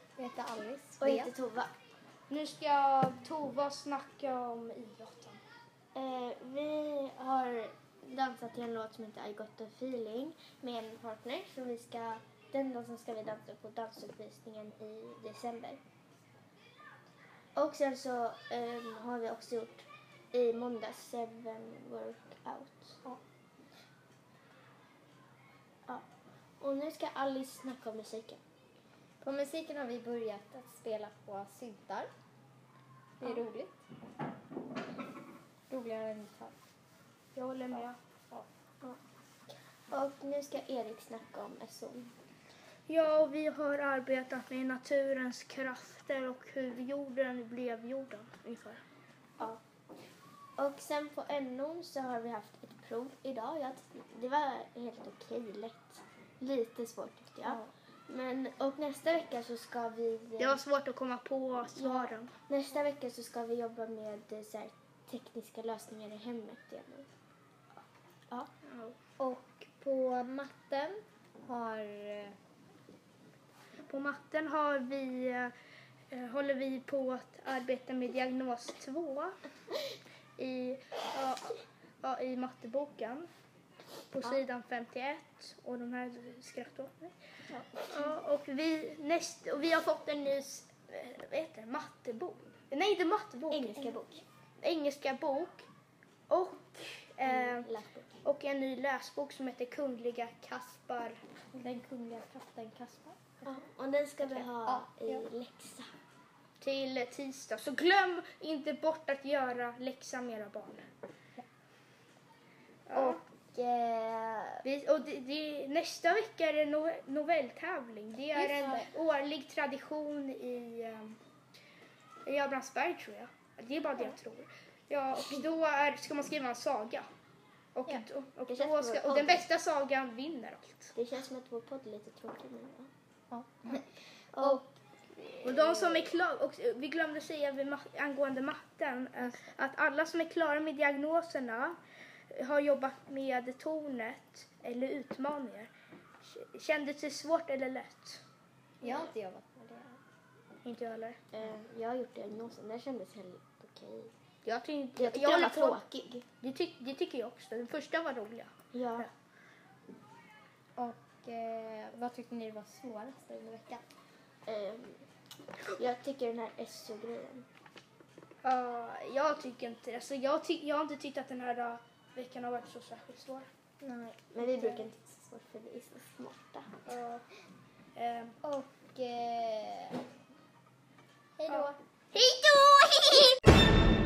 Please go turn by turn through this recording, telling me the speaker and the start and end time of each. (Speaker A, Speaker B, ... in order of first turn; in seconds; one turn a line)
Speaker A: 0.2-1.3
Speaker B: 1.0-1.7
Speaker C: 2.3-5.4
Speaker B: 5.9-15.8
Speaker B: 17.5-23.0
Speaker B: 26.6-28.4
Speaker A: 29.2-32.1
Speaker A: 33.2-33.8
Speaker A: 35.7-36.5
Speaker C: 37.4-38.0
Speaker B: 39.9-42.1
Speaker C: 42.9-48.8
Speaker B: 50.6-60.6
Speaker C: 60.4-62.3
Speaker B: 61.8-67.1
Speaker C: 68.7-69.0
Speaker A: 69.2-72.3
Speaker C: 73.9-75.5
Speaker C: 76.1-79.4
Speaker C: 80.4-83.3
Speaker C: 84.1-87.2
Speaker B: 87.6-88.0
Speaker C: 87.9-93.9
Speaker B: 93.5-94.2
Speaker C: 94.6-95.7
Speaker C: 96.3-97.7
Speaker B: 97.2-98.1
Speaker C: 98.2-101.2
Speaker A: 101.5-103.6
Speaker B: 103.4-105.9
Speaker A: 104.2-105.3
Speaker C: 106.6-110.9
Speaker C: 112.9-113.2
Speaker B: 112.9-114.6
Speaker C: 114.6-121.2
Speaker B: 118.3-118.9
Speaker C: 122.2-127.1
Speaker C: 127.7-130.9
Speaker B: 128.5-129.4
Speaker B: 130.9-132.9
Speaker A: 133.3-133.8
Speaker B: 134.3-136.1
Speaker C: 135.4-141.8
Speaker C: 142.3-145.7
Speaker C: 146.2-148.2
Speaker A: 148.8-150.0
Speaker C: 150.6-151.2
Speaker B: 151.3-154.1
Speaker C: 154.4-155.8
Speaker B: 154.9-156.2
Speaker C: 156.4-159.1
Speaker B: 158.7-159.1
Speaker A: 160.8-163.8
Speaker B: 164.4-165.0
Speaker B: 165.8-167.4
Speaker C: 168.4-173.5
Speaker A: 173.8-174.9
Speaker B: 174.3-176.8
Speaker C: 176.8-177.3
Speaker C: 177.9-178.3
Speaker A: 178.4-180.0
Speaker A: 181.4-181.8